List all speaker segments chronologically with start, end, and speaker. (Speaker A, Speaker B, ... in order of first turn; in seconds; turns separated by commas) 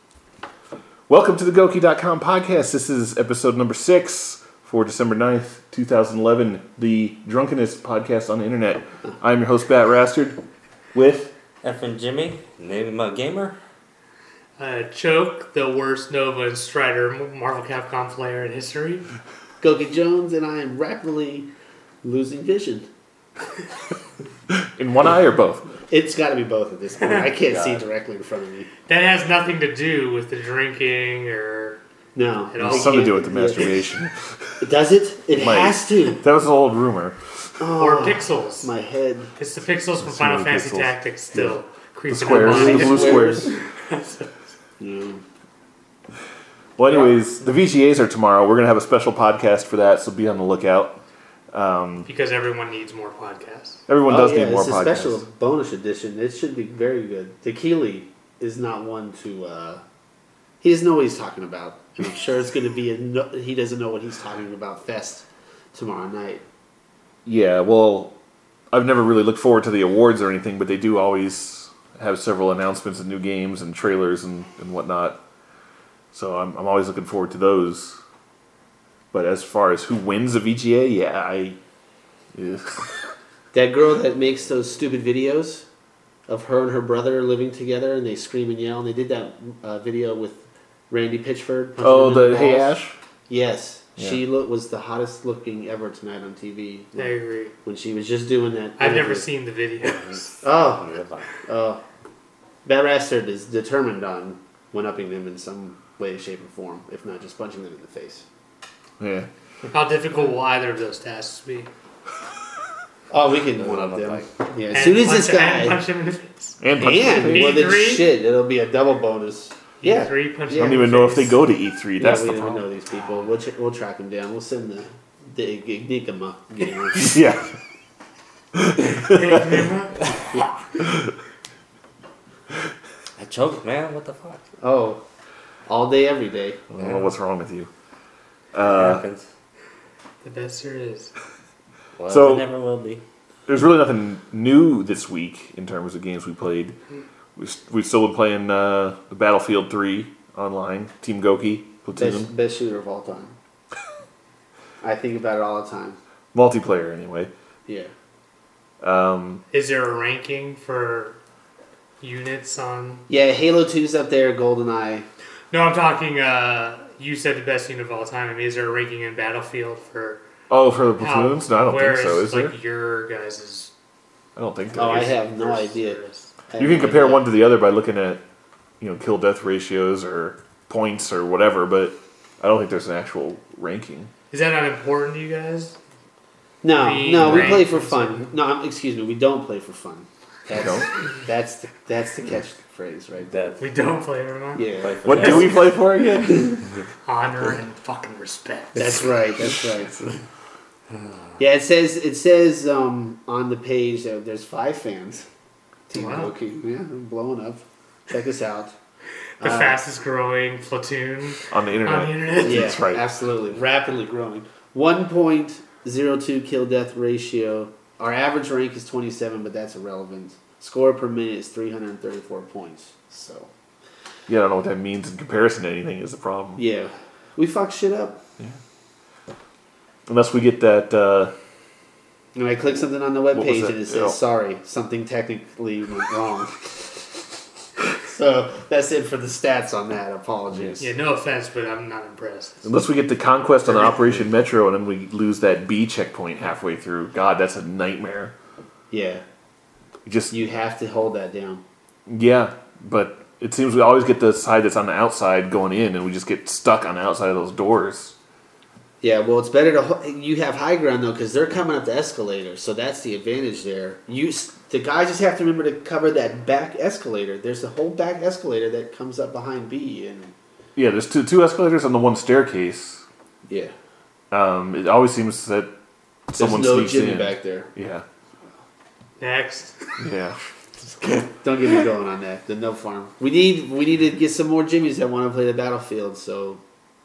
Speaker A: 1.1-10.4, Speaker A: 10.9-11.3, Speaker B: 11.6-13.6, Speaker C: 14.6-19.1, Speaker D: 19.6-21.5, Speaker D: 22.0-22.9, Speaker A: 24.5-25.7, Speaker D: 25.9-28.7, Speaker C: 27.0-27.3, Speaker B: 27.5-27.8, Speaker C: 28.9-31.8, Speaker D: 32.1-33.8, Speaker C: 32.5-33.1, Speaker A: 32.6-34.6, Speaker D: 34.6-36.2, Speaker A: 35.3-37.2, Speaker D: 37.6-39.3, Speaker C: 37.8-38.7, Speaker C: 39.4-44.5, Speaker A: 40.0-41.5, Speaker A: 42.1-43.5, Speaker D: 42.3-43.6, Speaker D: 44.8-45.2, Speaker A: 46.8-51.0, Speaker D: 46.9-47.2, Speaker A: 51.5-52.1, Speaker C: 52.1-53.8, Speaker A: 53.9-55.2, Speaker D: 54.1-59.8, Speaker D: 60.6-66.4, Speaker A: 67.2-68.1, Speaker A: 68.7-75.2, Speaker A: 76.1-78.0, Speaker A: 79.1-81.6, Speaker A: 82.3-83.1, Speaker D: 83.5-85.6, Speaker D: 86.3-92.8, Speaker A: 91.8-93.0, Speaker D: 93.3-97.1, Speaker C: 97.0-97.5, Speaker D: 97.6-99.3, Speaker C: 98.8-100.4, Speaker B: 99.9-101.3, Speaker D: 100.4-100.8, Speaker D: 101.4-101.8, Speaker D: 102.6-108.2, Speaker A: 109.0-109.3, Speaker C: 109.7-111.7, Speaker D: 113.1-115.8, Speaker B: 113.6-114.3, Speaker C: 114.7-118.1, Speaker A: 116.6-117.6, Speaker D: 116.8-120.8, Speaker C: 119.8-121.4, Speaker A: 120.5-122.6, Speaker D: 122.0-127.2, Speaker A: 127.0-127.5, Speaker A: 128.5-129.7, Speaker C: 129.0-130.2, Speaker B: 133.2-134.4, Speaker D: 134.6-135.0, Speaker D: 135.7-136.6, Speaker A: 136.7-137.7, Speaker B: 136.8-137.1, Speaker A: 138.5-139.0, Speaker B: 138.7-139.2, Speaker C: 140.2-141.1, Speaker B: 141.9-143.0, Speaker A: 142.1-142.5, Speaker A: 143.5-146.8, Speaker A: 147.3-152.3, Speaker D: 151.9-153.3, Speaker D: 154.8-156.0, Speaker A: 156.3-157.3, Speaker A: 158.8-159.4, Speaker C: 159.5-161.2, Speaker C: 162.0-163.0, Speaker D: 163.1-165.1, Speaker C: 165.5-170.2, Speaker A: 170.5-172.5, Speaker C: 171.0-173.7, Speaker A: 174.3-175.2, Speaker C: 174.7-176.3, Speaker D: 174.8-176.0, Speaker D: 176.5-177.2, Speaker A: 176.6-178.2, Speaker A: 178.8-184.1, Speaker C: 184.3-185.8, Speaker D: 186.6-193.6, Speaker C: 186.7-188.3, Speaker A: 187.2-187.6, Speaker A: 190.5-190.9, Speaker B: 193.3-193.6, Speaker C: 193.6-195.4, Speaker D: 194.5-195.5, Speaker B: 194.8-195.7, Speaker A: 195.0-196.6, Speaker C: 197.0-199.0, Speaker D: 198.8-200.0, Speaker D: 201.4-205.2, Speaker D: 205.9-208.8, Speaker C: 205.9-206.3, Speaker D: 209.4-209.8, Speaker C: 209.4-212.8, Speaker A: 211.5-213.0, Speaker D: 212.4-223.5, Speaker A: 224.3-226.6, Speaker D: 226.6-228.2, Speaker A: 230.1-231.3, Speaker D: 232.3-237.0, Speaker A: 233.3-234.2, Speaker D: 238.0-240.9, Speaker C: 240.8-242.6, Speaker A: 242.6-248.3, Speaker D: 243.7-244.2, Speaker D: 248.9-249.2, Speaker A: 250.1-250.3, Speaker D: 250.3-251.6, Speaker A: 252.1-258.1, Speaker D: 259.0-270.3, Speaker A: 270.8-273.0, Speaker D: 273.5-273.7, Speaker A: 274.3-275.7, Speaker A: 276.3-278.0, Speaker D: 276.4-277.7, Speaker C: 279.2-280.0, Speaker A: 280.0-280.4, Speaker D: 281.4-286.6